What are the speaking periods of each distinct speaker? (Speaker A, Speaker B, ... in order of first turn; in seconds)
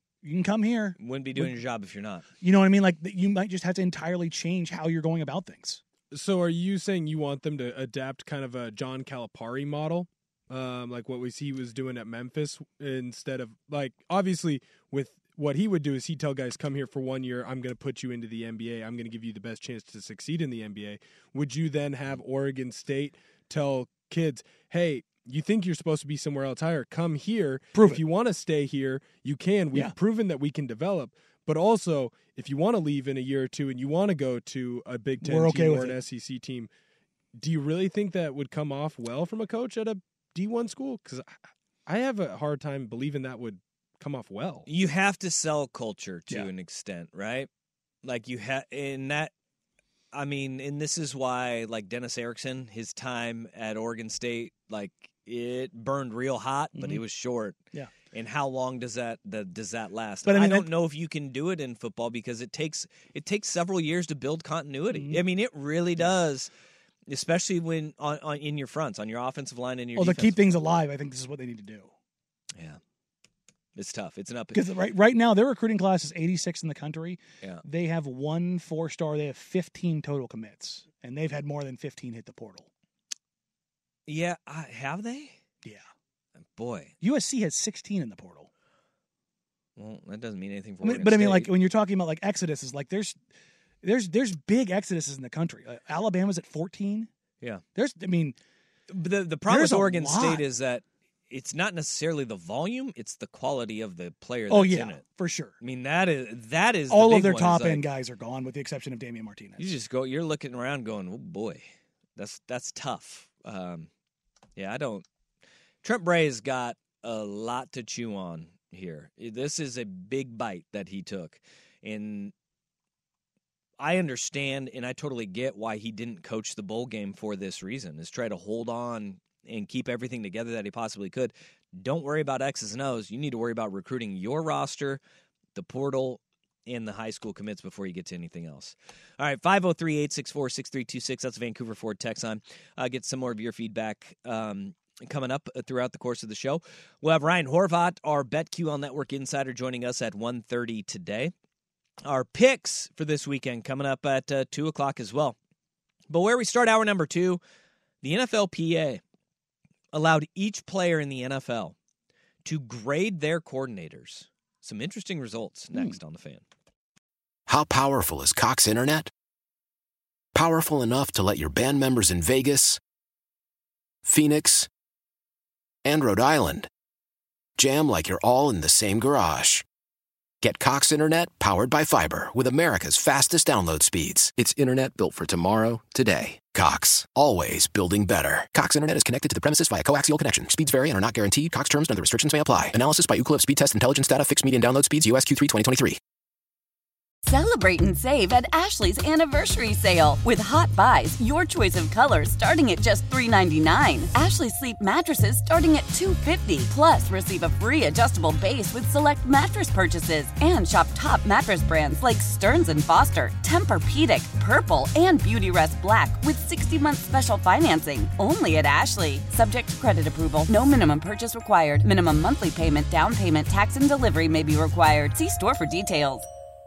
Speaker A: 0.2-1.5, 2.4-5.8, 27.7-28.0, 35.2-36.0, 56.7-57.0, 60.2-60.7, 64.9-65.2, 70.0-71.9, 74.5-82.7, 87.0-88.5, 90.8-93.2, 93.8-97.1, 97.8-98.3, 99.5-100.4, 104.5-105.5, 106.9-109.7
Speaker B: 1.0-2.2, 44.7-47.5, 48.0-49.3, 50.1-57.6, 58.1-66.5, 67.1-70.5, 73.8-74.7, 84.1-85.3, 86.4-86.9, 89.8-91.5, 98.9-105.0, 105.6-107.8, 109.6-111.6, 112.2-113.9, 114.6-115.0, 115.8-122.3, 123.8-135.0, 135.5-151.3, 152.0-155.3, 156.1-157.4, 158.0-159.0, 159.9-161.7, 162.4-166.4
Speaker C: 6.1-36.7, 37.4-41.3, 41.9-44.7
Speaker D: 167.5-169.1, 170.3-172.8, 174.0-174.7, 175.8-176.7, 177.6-179.6, 180.4-196.0
Speaker E: 197.2-226.3